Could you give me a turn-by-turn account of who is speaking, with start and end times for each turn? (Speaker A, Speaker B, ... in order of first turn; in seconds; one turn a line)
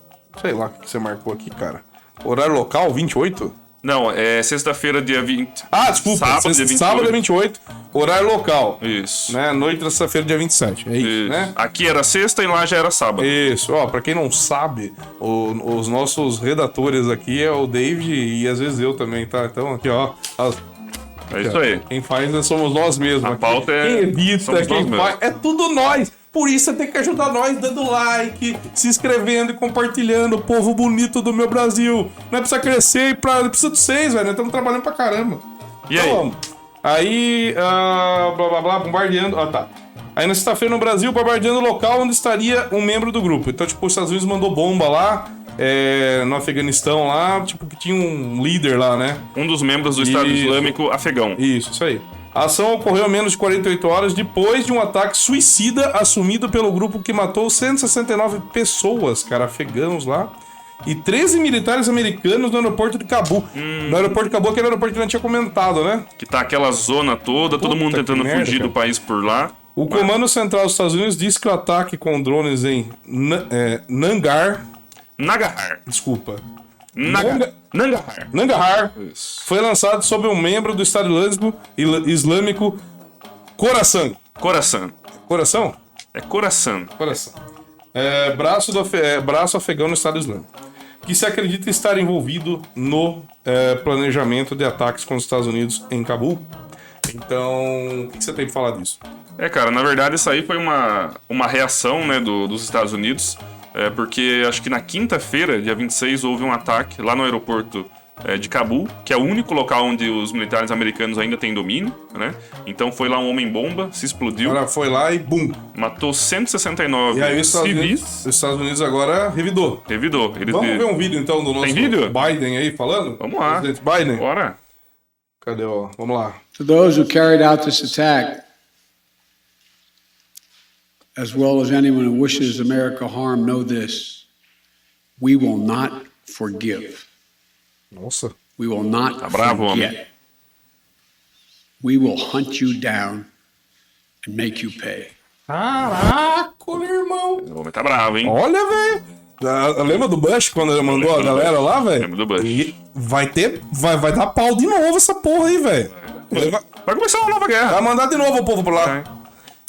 Speaker A: 0.3-3.5
Speaker B: 3.8-7.2
Speaker A: 5.7-11.5
Speaker B: 8.8-9.4
Speaker B: 11.0-13.3
Speaker A: 13.2-20.6
Speaker B: 21.3-21.8
Speaker A: 21.4-35.4
Speaker B: 23.2-25.2
Speaker B: 35.9-36.2
Speaker A: 35.9-49.2
Speaker B: 49.3-51.4
Speaker A: 50.0-50.8
Speaker A: 51.4-66.1
Speaker B: 63.5-64.2
Speaker B: 66.2-70.1
Speaker A: 67.6-68.7
Speaker A: 69.7-74.6
Speaker B: 75.2-75.8
Speaker A: 75.8-76.4
Speaker B: 76.9-78.3
Speaker A: 77.0-77.5
Speaker A: 78.3-82.8
Speaker B: 79.0-79.5
Speaker A: 83.6-84.2
Speaker B: 84.4-84.9
Speaker A: 85.3-85.8
Speaker B: 86.1-87.0
Speaker A: 87.0-87.3
Speaker A: 87.9-90.5
Speaker A: 91.0-96.5
Speaker A: 97.0-99.0
Speaker B: 99.4-114.6
Speaker A: 114.4-115.6
Speaker B: 115.7-118.2
Speaker A: 117.1-119.8
Speaker B: 119.9-120.9
Speaker A: 120.5-124.2
Speaker B: 121.6-122.2
Speaker B: 123.2-124.6
Speaker A: 125.4-126.4
Speaker C: 126.5-128.4
Speaker C: 131.2-134.2
Speaker C: 135.2-137.1
Speaker A: 137.9-138.3
Speaker C: 138.6-140.0
Speaker B: 139.2-139.9
Speaker C: 141.8-143.3
Speaker C: 144.2-145.1
Speaker A: 145.5-147.4
Speaker B: 147.4-148.4
Speaker A: 148.2-156.6
Speaker B: 150.9-152.7
Speaker B: 156.0-157.8
Speaker A: 157.7-158.9
Speaker B: 158.7-159.1